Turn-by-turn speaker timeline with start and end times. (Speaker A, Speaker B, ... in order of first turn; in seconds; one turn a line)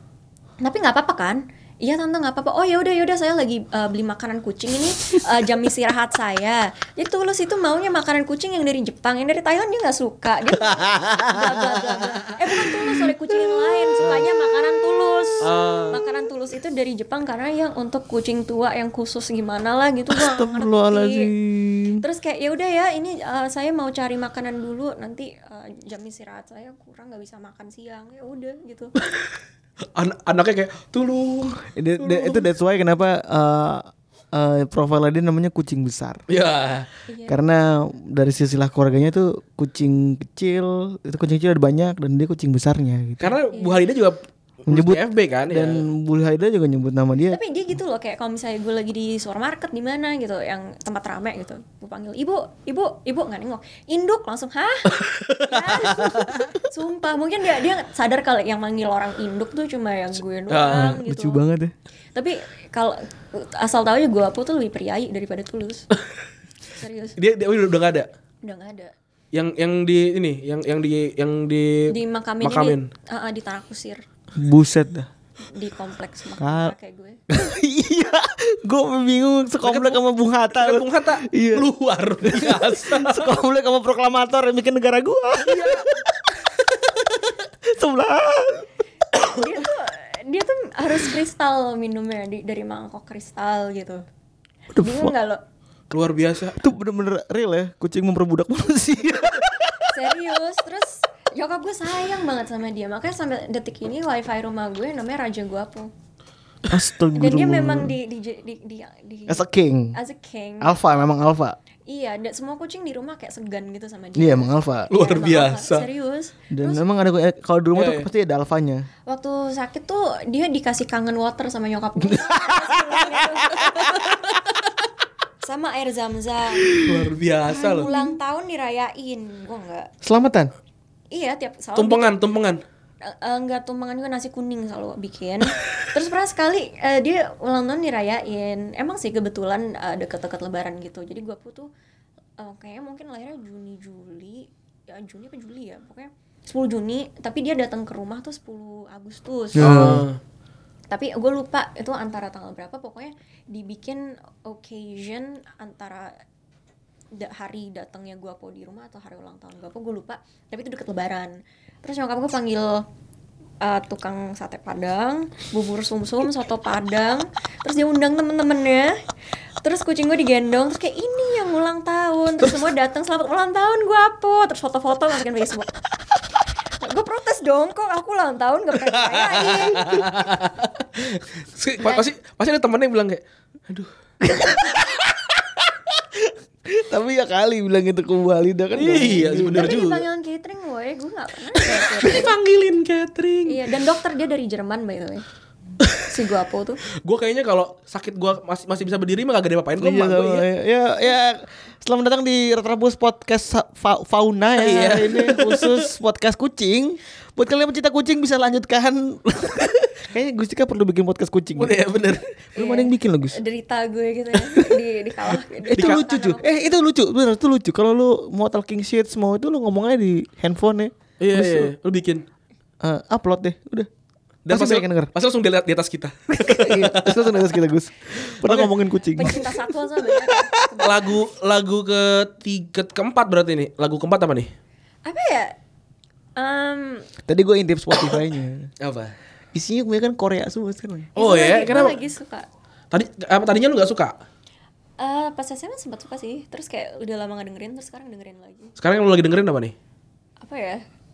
Speaker A: 0.6-21.3
Speaker B: 15.4-16.0
Speaker C: 20.1-22.0
Speaker A: 22.0-28.9
Speaker B: 29.9-32.5
Speaker C: 31.7-36.2
Speaker B: 36.3-36.9
Speaker A: 37.1-37.4
Speaker C: 37.3-43.3
Speaker B: 43.2-45.8
Speaker A: 43.5-43.8
Speaker C: 44.7-47.4
Speaker A: 47.3-61.4
Speaker B: 54.9-56.4
Speaker B: 60.5-61.0
Speaker C: 60.7-61.7
Speaker A: 62.1-65.8
Speaker A: 66.8-67.2
Speaker B: 67.2-68.1
Speaker A: 68.4-68.9
Speaker B: 69.3-72.9
Speaker A: 71.9-74.0
Speaker C: 74.4-75.1
Speaker A: 75.4-77.2
Speaker C: 76.4-76.7
Speaker C: 77.3-81.7
Speaker B: 79.6-80.0
Speaker B: 80.5-83.3
Speaker C: 82.2-85.9
Speaker B: 85.5-85.9
Speaker C: 87.6-89.4
Speaker A: 89.4-94.0
Speaker C: 94.7-95.1
Speaker A: 94.8-95.4
Speaker B: 95.9-96.6
Speaker C: 96.6-99.9
Speaker A: 99.9-105.9
Speaker C: 106.7-108.0
Speaker A: 107.2-110.8
Speaker C: 109.3-110.0
Speaker C: 110.6-111.6
Speaker A: 111.9-116.8
Speaker C: 114.2-114.9
Speaker B: 114.9-115.9
Speaker C: 116.5-118.9
Speaker B: 117.8-118.1
Speaker A: 119.1-124.2
Speaker C: 122.0-123.7
Speaker A: 125.4-126.7
Speaker C: 126.7-127.1
Speaker B: 126.8-127.9
Speaker A: 127.5-129.9
Speaker C: 127.8-128.1
Speaker C: 130.0-130.5
Speaker A: 131.1-132.1
Speaker B: 131.8-132.6
Speaker A: 133.1-141.7
Speaker A: 142.4-149.9
Speaker C: 149.6-150.1
Speaker B: 149.6-150.2
Speaker A: 150.9-156.1
Speaker A: 157.1-162.8
Speaker A: 163.6-169.0
Speaker A: 169.6-175.7
Speaker A: 176.8-180.1
Speaker B: 179.1-183.9
Speaker C: 184.2-189.8
Speaker B: 188.8-190.1
Speaker A: 189.5-192.3
Speaker B: 191.8-193.6
Speaker A: 193.5-195.2
Speaker A: 196.0-196.8
Speaker B: 197.0-200.4
Speaker C: 199.8-213.4
Speaker B: 204.6-205.9
Speaker B: 211.6-212.2
Speaker A: 212.6-216.5
Speaker C: 215.7-221.7
Speaker B: 215.8-216.1
Speaker B: 221.2-222.2
Speaker C: 222.8-223.9
Speaker B: 224.5-227.5
Speaker C: 224.5-225.1
Speaker C: 226.4-229.5
Speaker B: 228.2-228.7
Speaker A: 229.2-231.0
Speaker C: 230.1-230.3
Speaker B: 230.8-234.5
Speaker A: 235.1-235.6
Speaker A: 236.4-237.1
Speaker C: 237.3-238.7
Speaker B: 238.8-239.2
Speaker C: 239.5-241.1
Speaker B: 241.2-242.0
Speaker A: 241.2-242.5
Speaker B: 242.9-244.2
Speaker A: 245.0-248.7
Speaker B: 248.8-249.8
Speaker A: 250.4-250.8